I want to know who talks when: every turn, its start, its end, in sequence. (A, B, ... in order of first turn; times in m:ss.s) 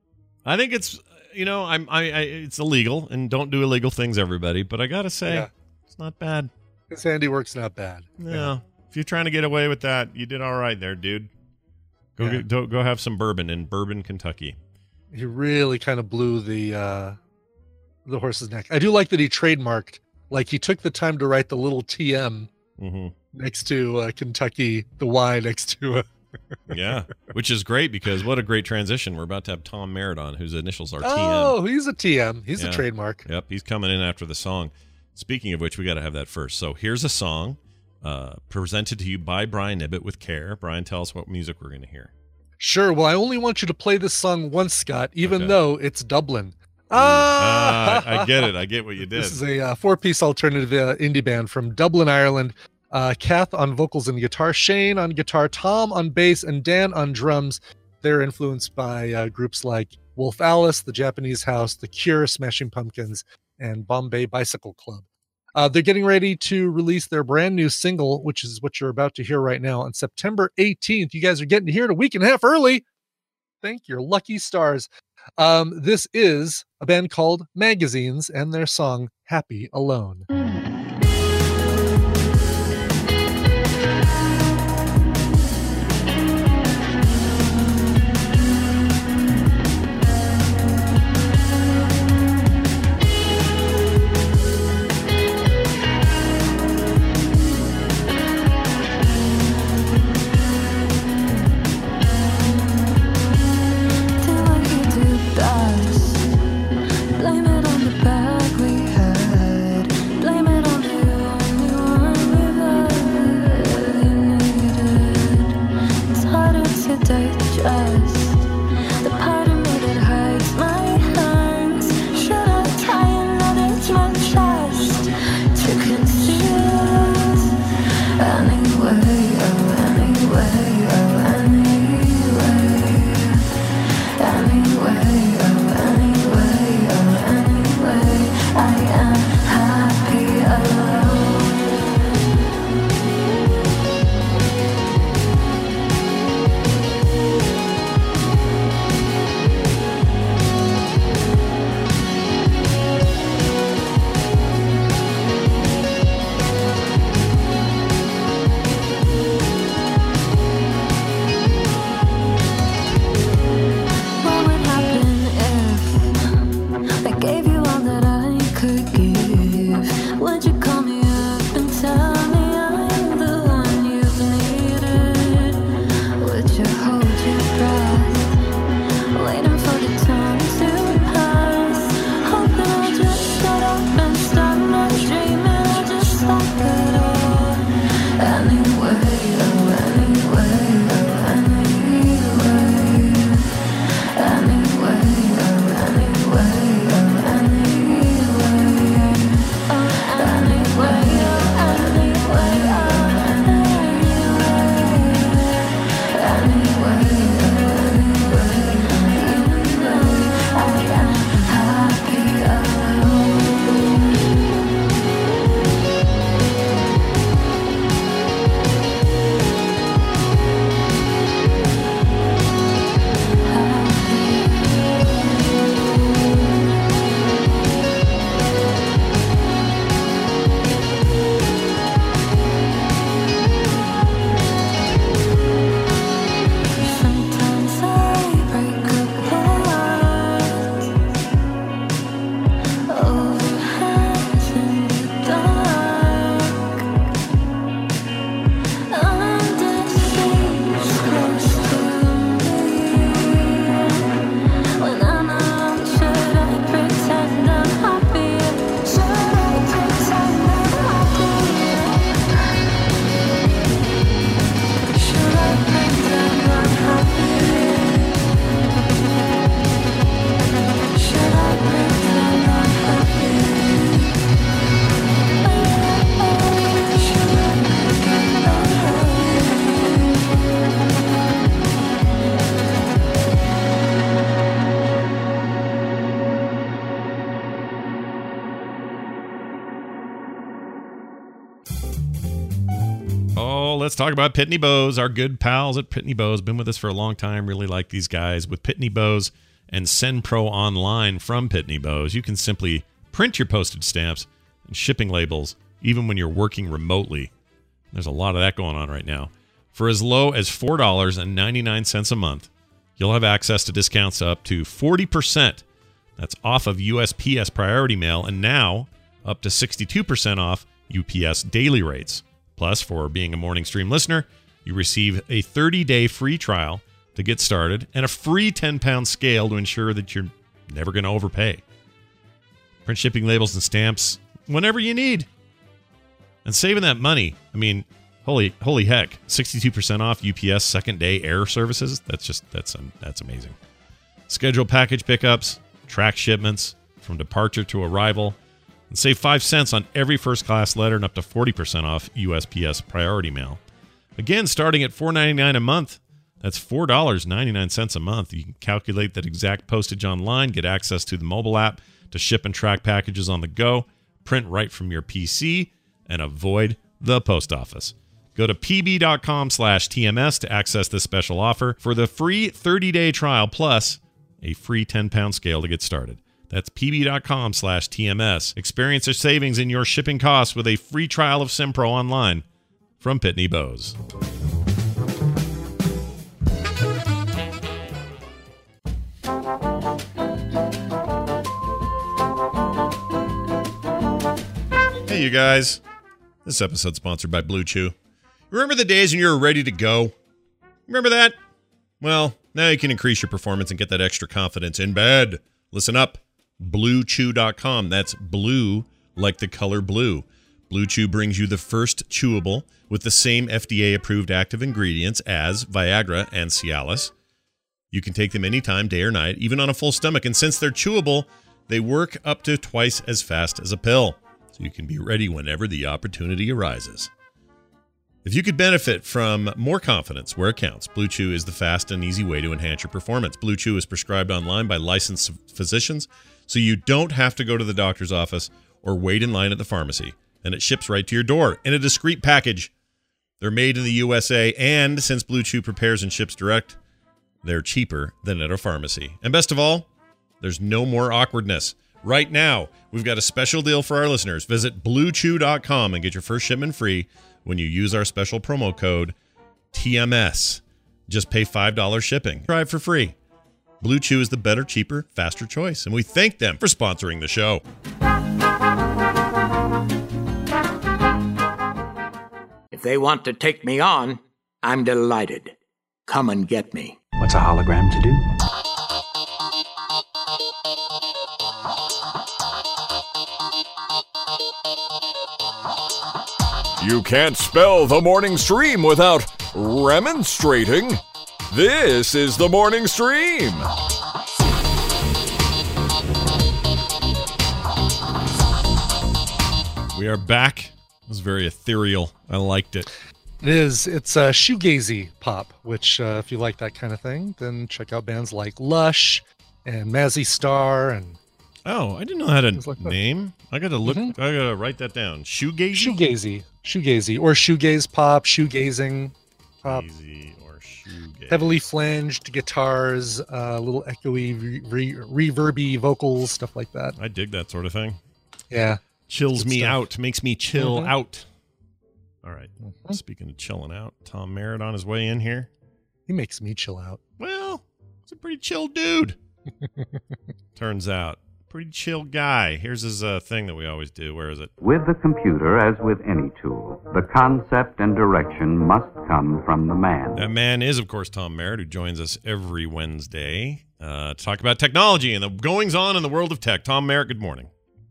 0:00.4-0:06.5 A
0:06.9-0:08.5 B
0:08.2-0:11.3 A
0:12.2-0:14.6 A
0:15.1-0:17.2 B
0:18.1-0:22.5 B
0:22.8-0:23.1 A
0:23.3-0:26.0 B
0:26.7-0:31.6 A
0:31.0-0:33.2 B
0:32.6-0:42.1 A
0:42.6-0:48.5 B
0:45.2-0:45.6 A
0:46.9-0:49.4 A
0:49.1-1:12.8 B
1:13.6-1:20.3 B
1:44.2-1:46.4 C
1:47.1-1:55.6 C
1:56.1-1:58.5 C
1:59.0-2:07.6 C
2:08.2-2:13.4 C
2:14.2-2:21.7 C
2:44.2-2:46.2 C
2:47.0-2:58.4 C
2:59.1-3:13.5 C
3:14.1-3:34.5 C
3:43.4-3:44.9 C
3:56.8-4:00.9 C
4:02.9-4:06.8 C
4:08.9-4:14.2 C
4:14.8-4:22.3 C
4:24.9-4:28.3 C
4:30.9-4:34.1 C
4:35.4-4:40.2 C
4:53.4-5:07.3 A
5:07.9-5:15.6 A
5:16.2-5:31.6 A
5:32.9-5:35.3 A
5:36.4-5:43.6 A
5:44.3-5:48.4 A
5:48.9-5:53.6 A
5:54.2-6:22.4 A
6:23.0-6:24.0 A
6:35.1-6:35.8 A
6:36.4-6:37.9 A
6:38.5-6:40.1 A
6:40.9-6:41.4 A
6:42.0-6:57.1 A
6:57.9-7:07.1 A
7:08.2-7:22.7 A
7:23.4-7:26.8 A
7:27.4-7:29.9 A
7:30.4-7:39.2 A
7:39.7-7:43.2 A
7:43.8-7:47.6 A
7:52.7-7:55.6 D
7:56.1-7:57.0 D
8:06.8-8:13.7 E
8:19.9-8:22.9 A
8:23.4-8:31.2 B
8:31.6-8:36.0 A
8:32.6-8:32.9 B
8:33.9-8:34.2 B
8:35.7-8:39.1 B
8:39.7-8:41.7 A
8:41.3-8:47.0 B
8:47.0-8:48.0 A
8:48.5-8:48.8 B
8:49.1-8:51.2 A
8:49.4-8:49.8 B
8:50.6-8:50.9 B
8:52.2-8:55.5 A
8:52.7-8:53.0 B
8:56.1-8:57.0 B
8:57.2-8:59.2 A
9:00.6-9:04.5 A
9:04.6-9:10.2 F
9:10.2-9:17.5 A